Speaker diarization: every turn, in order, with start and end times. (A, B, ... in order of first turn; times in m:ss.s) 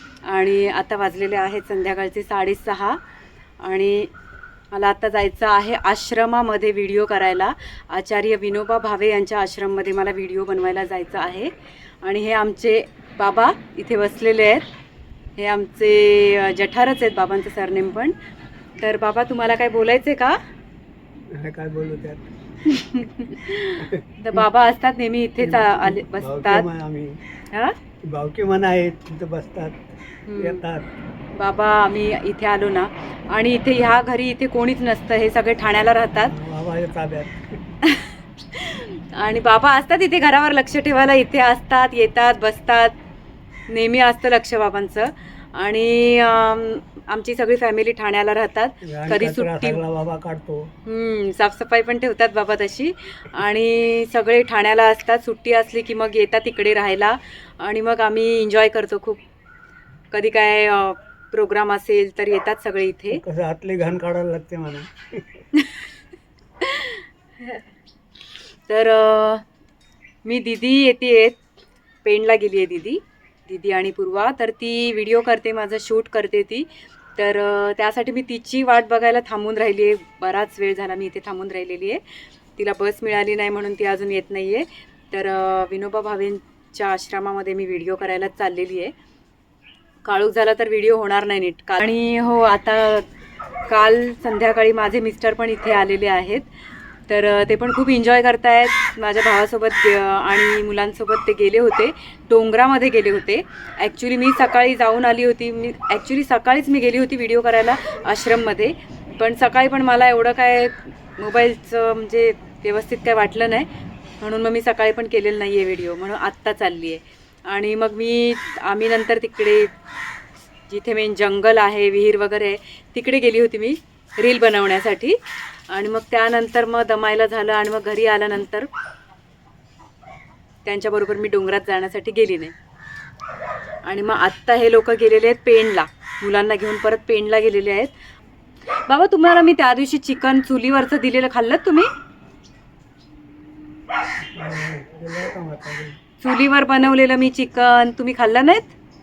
0:00.2-0:03.0 A
0:03.6-0:04.1 A
0:04.7-0:14.6 A
0:15.4-0:18.1 A
0:18.8-0:20.4 A
0:21.3-0:22.2 B
0:22.6-0:26.6 A
0:23.7-0:24.4 B
0:25.4-0:27.2 B
0:27.5-0:27.8 A
0:28.0-0:30.9 B
0:30.3-0:30.6 A
0:31.3-0:36.3 A
0:36.3-0:37.6 B
0:37.8-0:43.0 A
0:43.7-0:49.8 A
0:48.8-0:50.7 B
0:50.8-0:59.2 A
1:00.1-1:03.2 A
1:03.1-1:05.4 B
1:05.6-1:05.8 A
1:06.6-1:07.6 A
1:08.7-1:09.4 A
1:10.2-1:11.4 A
1:12.0-1:22.0 A
1:22.6-1:28.9 A
1:30.0-1:33.0 A
1:33.7-1:36.5 A
1:37.1-1:53.7 A
1:54.2-1:59.7 A
2:00.7-2:08.7 A
2:10.6-2:12.5 A
2:13.8-2:17.9 A
2:18.8-2:21.9 A
2:24.3-2:26.0 B
2:26.2-2:28.7 A